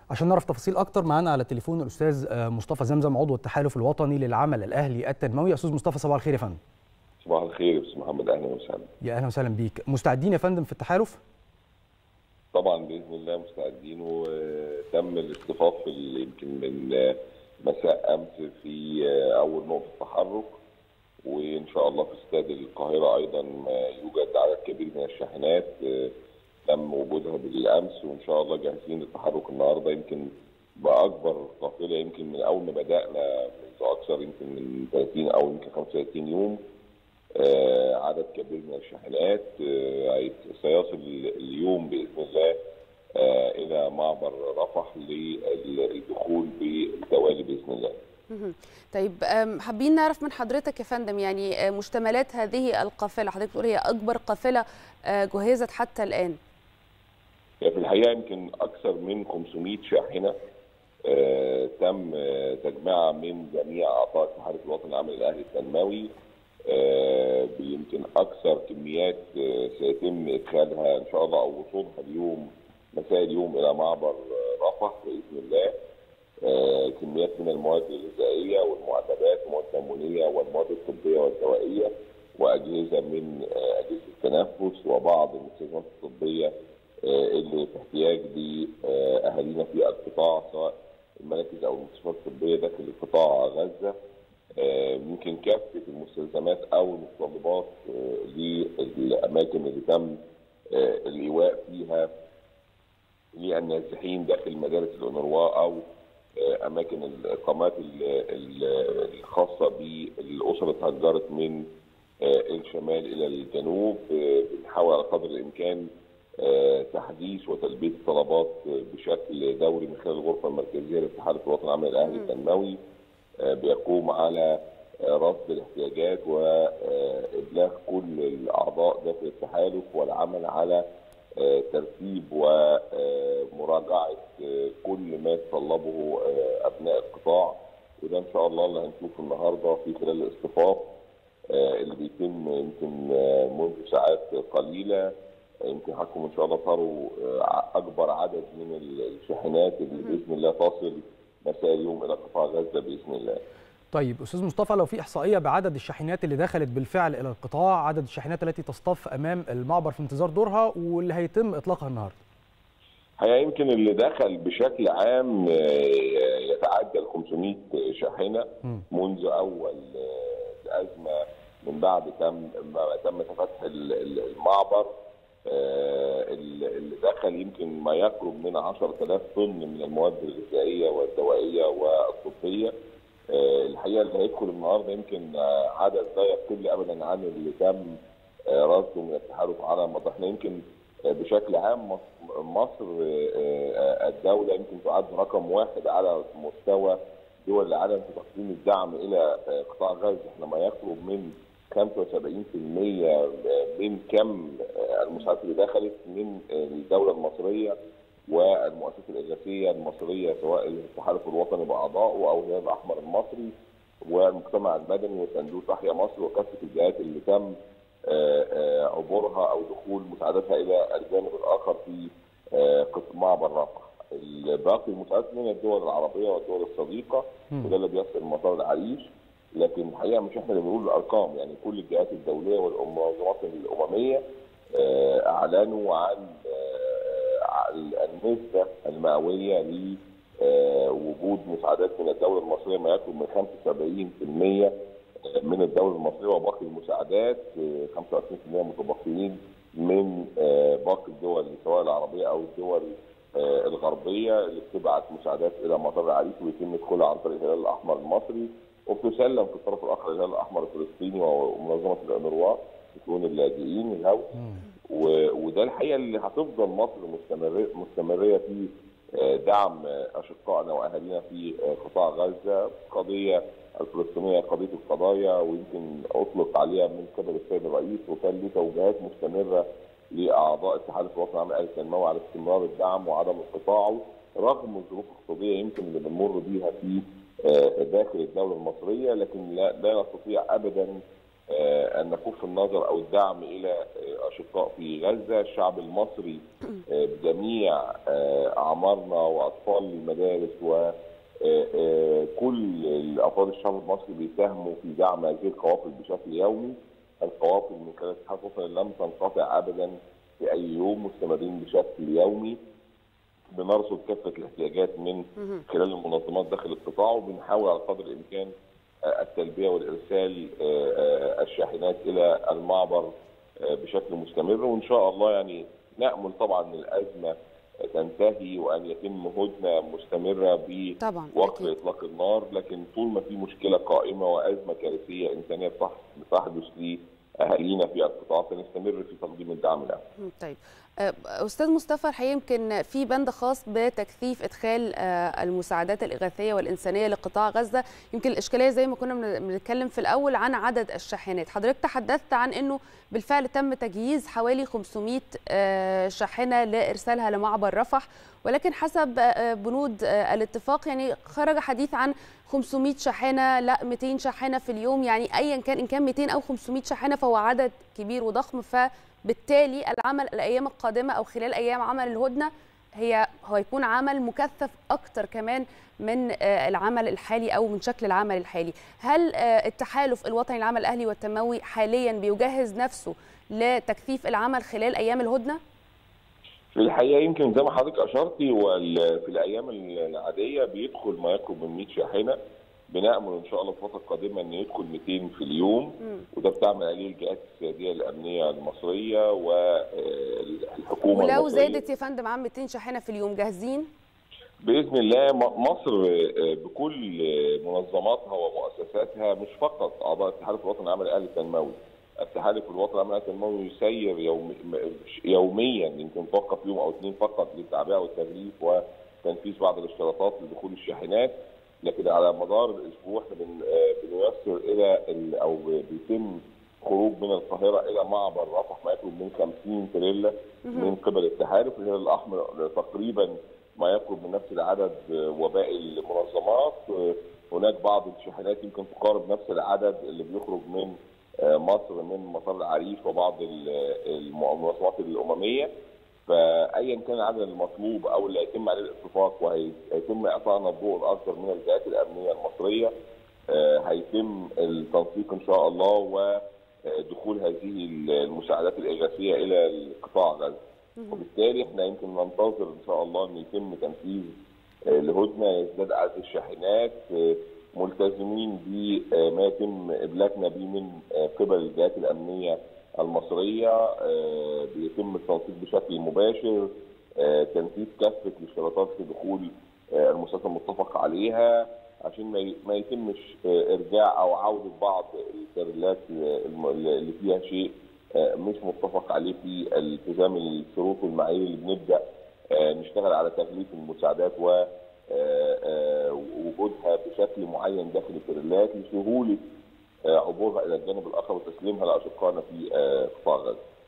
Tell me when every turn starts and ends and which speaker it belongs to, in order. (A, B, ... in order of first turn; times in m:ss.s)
0:00.1-0:06.6 A
0:07.2-0:08.9 B
0:09.0-0:11.2 A
0:12.5-0:20.6 B
0:21.2-0:26.1 B
0:26.7-0:36.6 B
0:37.4-0:42.5 B
0:43.2-0:48.0 B
0:48.3-0:56.4 C
0:57.6-1:00.3 B
1:01.1-1:06.1 B
1:06.7-1:15.7 B
1:16.4-1:26.5 B
1:27.0-1:33.9 B
1:34.6-1:40.2 B
1:40.7-1:42.1 B
1:43.4-1:45.8 B
1:46.4-1:51.6 B
1:52.2-1:55.9 B
1:56.4-2:02.8 B
2:02.0-2:02.3 C
2:03.4-2:10.8 B
2:11.4-2:20.8 B
2:21.5-2:25.1 B
2:25.6-2:33.4 B
2:33.9-2:42.2 A
2:43.2-2:54.9 B
2:55.5-3:02.7 B
3:03.3-3:08.0 B
3:08.5-3:27.7 B
3:28.3-3:33.5 B
3:34.0-3:37.6 B
3:38.1-3:54.2 B
3:54.7-4:04.7 B
4:05.2-4:24.3 B
4:24.4-4:24.6 A
4:24.9-4:50.9 B
4:51.5-5:12.6 B
5:13.5-5:18.5 B
5:15.4-5:15.6 C
5:19.1-5:27.3 B
5:27.9-5:40.0 B
5:31.0-5:31.7 C
5:40.2-6:25.6 C
6:26.7-6:32.4 B
6:32.9-6:41.8 B
6:41.1-6:43.9 C
6:44.6-7:25.7 B
7:10.6-7:10.9 C
7:26.3-7:32.9 B
7:33.5-7:40.6 B
7:41.0-7:41.2 C
7:41.1-7:44.3 B
7:44.9-8:12.0 B
8:12.5-8:19.4 B
8:20.1-8:23.6 B